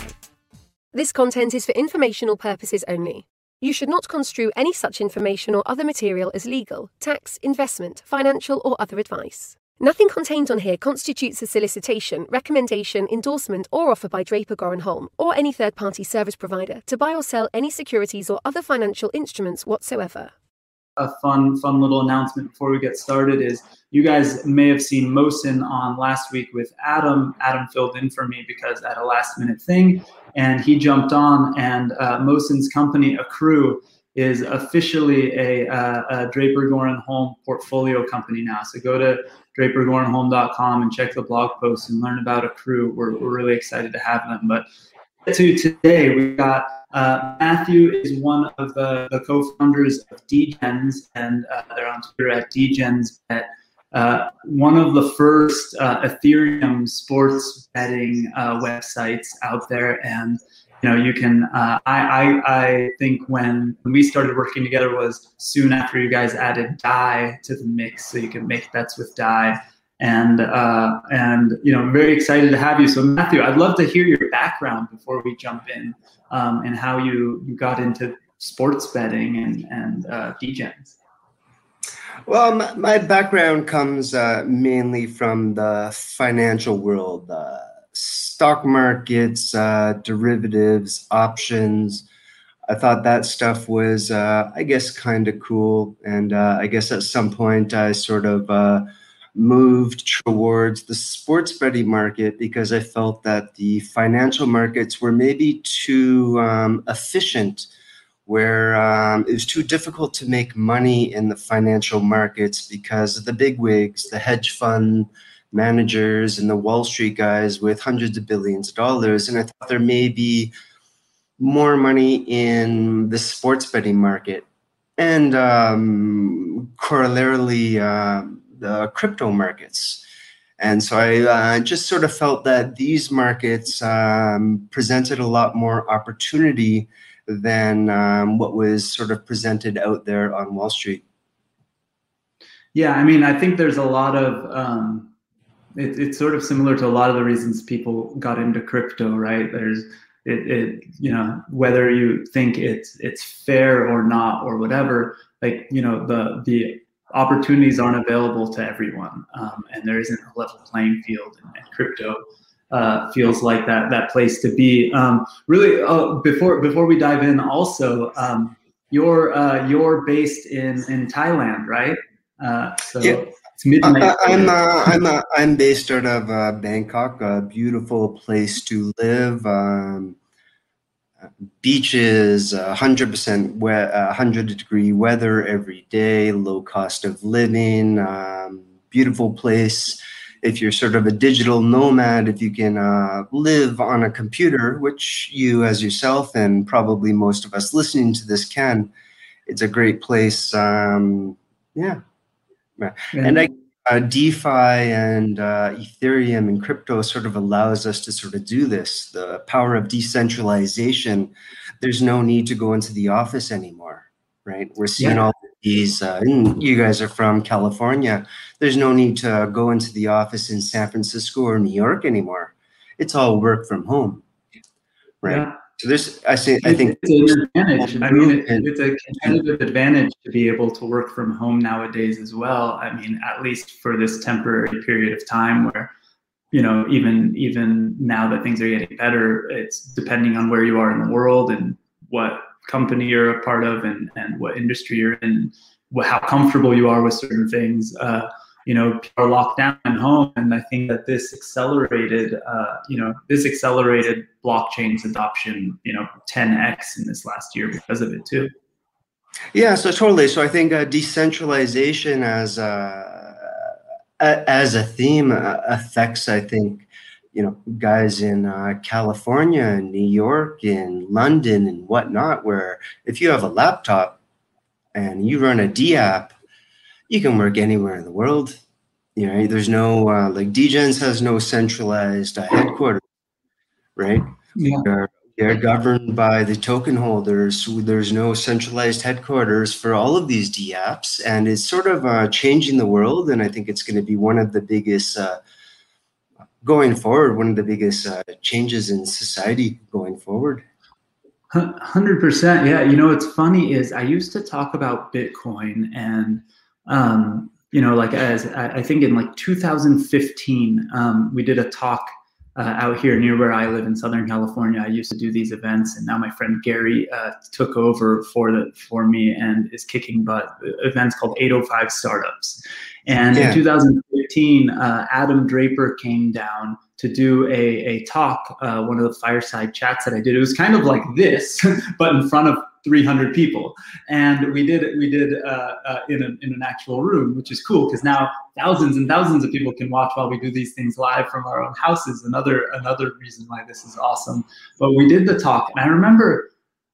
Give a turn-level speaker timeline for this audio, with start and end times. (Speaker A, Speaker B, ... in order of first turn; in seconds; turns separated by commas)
Speaker A: 0.9-20.3, Speaker B: 21.0-44.6, Speaker B: 45.3-81.0, Speaker C: 82.3-92.1, Speaker C: 92.7-107.7, Speaker C: 108.3-120.5, Speaker C: 121.4-124.5, Speaker C: 125.0-130.0, Speaker C: 130.6-141.0, Speaker B: 142.7-145.1, Speaker B: 145.8-162.2, Speaker B: 162.7-175.0, Speaker C: 173.8-180.2, Speaker C: 181.3-198.9, Speaker C: 199.5-202.0, Speaker C: 202.8-224.2, Speaker B: 203.1-203.4, Speaker C: 225.2-228.7, Speaker B: 225.3-225.6, Speaker B: 226.6-235.9, Speaker B: 236.5-258.5, Speaker C: 259.5-274.2, Speaker C: 274.9-276.4, Speaker C: 277.1-278.6, Speaker C: 279.2-283.0, Speaker C: 284.0-295.4, Speaker B: 284.6-284.9, Speaker C: 296.6-300.6, Speaker B: 301.5-346.5, Speaker C: 323.3-323.6